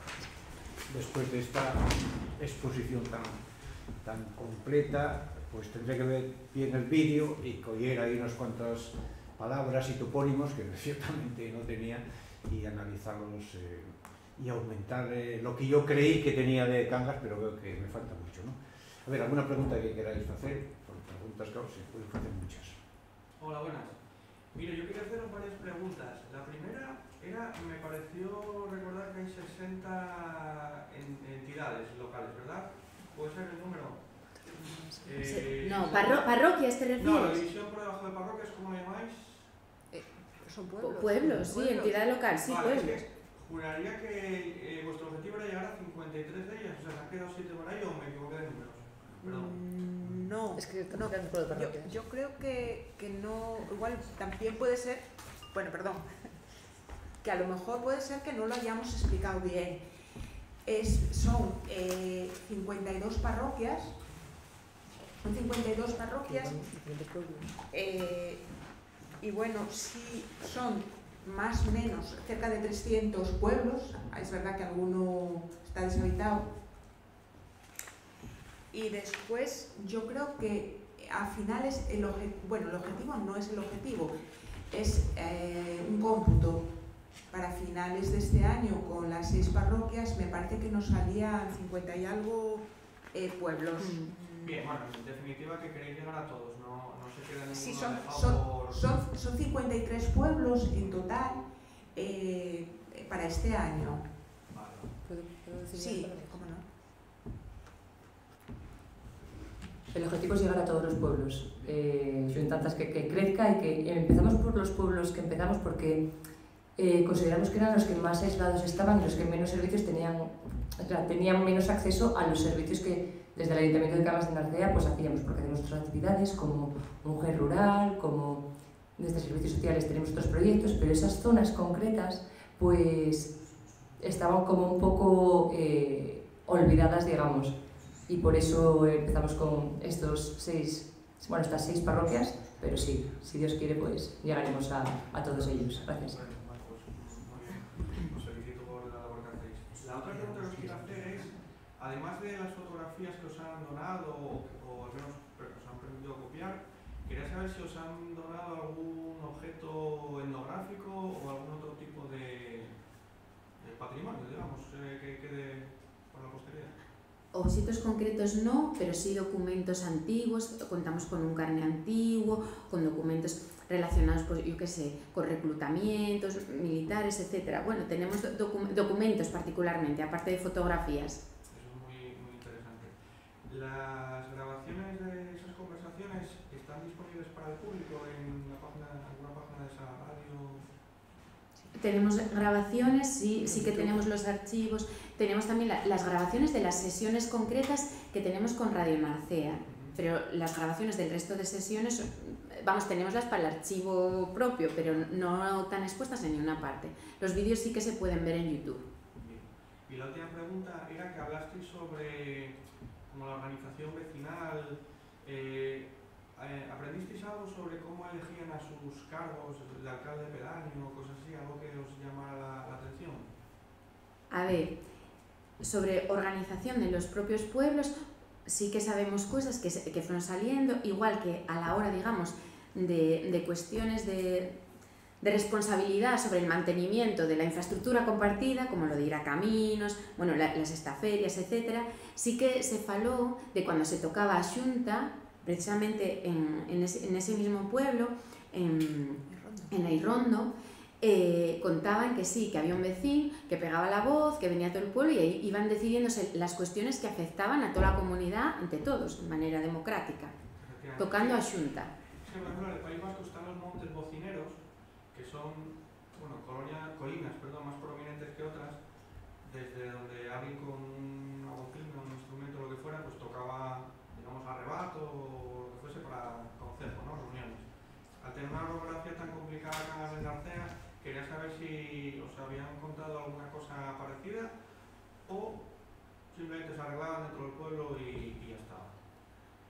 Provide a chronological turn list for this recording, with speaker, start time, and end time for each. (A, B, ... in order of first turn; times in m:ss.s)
0:00.9-0:03.4 A
0:04.0-0:22.8 A
0:23.4-0:34.1 B
0:34.6-0:34.9 C
0:35.0-0:36.4 B
0:35.2-0:37.4 D
0:37.0-0:39.5 B
0:39.9-0:42.0 E
0:40.8-0:43.0 D
0:42.4-0:49.6 B
0:49.2-0:56.0 E
0:50.5-0:51.9 C
0:57.2-0:59.8 E
1:00.6-1:04.0 E
1:05.2-1:06.6 E
1:06.0-1:07.6 C
1:07.7-1:08.4 E
1:09.2-1:16.5 E
1:18.7-1:24.1 E
1:24.7-1:26.7 E
1:27.3-1:34.7 E
1:33.8-1:34.1 D
1:34.4-1:38.9 B
1:37.5-1:41.4 E
1:41.9-1:44.1 E
1:44.5-1:44.9 B
1:45.0-1:46.4 C
1:45.7-1:46.6 E
1:49.9-1:56.1 C
1:51.6-1:52.5 B
1:56.8-2:13.4 C
2:14.0-2:26.2 C
2:25.1-2:42.8 B
2:43.6-2:46.8 B
2:47.3-3:01.2 D
3:01.5-3:10.7 B
3:11.7-3:28.9 D
3:19.6-3:20.0 B
3:29.1-3:43.3 B
3:44.3-3:44.8 D
3:45.6-3:54.6 D
3:55.2-4:20.3 D
4:09.3-4:09.7 E
4:20.6-4:21.5 B
4:21.0-4:21.9 D
4:22.2-4:44.6 B
4:45.2-4:45.7 B
4:46.3-4:49.0 B